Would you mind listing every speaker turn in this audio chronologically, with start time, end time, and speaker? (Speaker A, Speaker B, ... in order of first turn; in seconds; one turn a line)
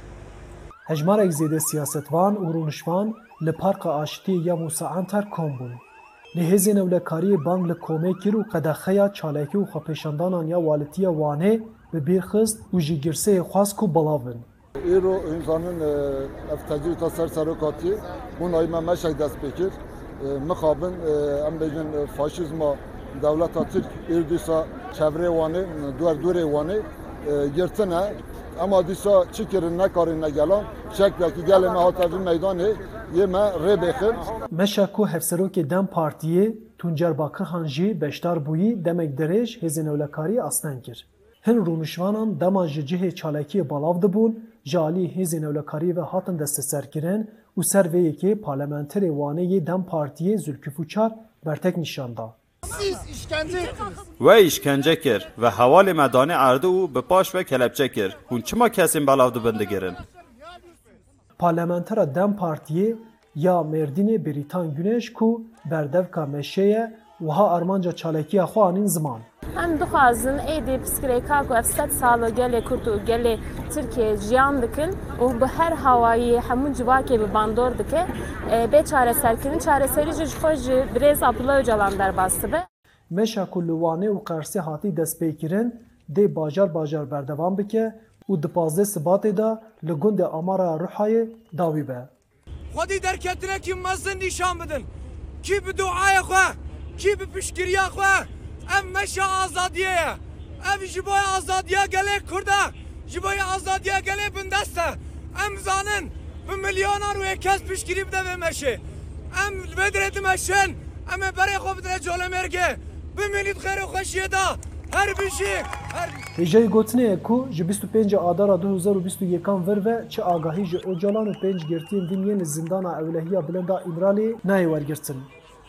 Speaker A: 0.9-14.5
Speaker B: 14.8-34.3
Speaker A: 34.5-52.4
Speaker C: 54.2-60.0
Speaker A: 61.4-69.3
Speaker D: 69.5-82.6
Speaker A: 83.1-92.1
Speaker E: 92.7-94.9
Speaker E: 95.4-108.8
Speaker E: 109.3-116.2
Speaker A: 116.4-125.3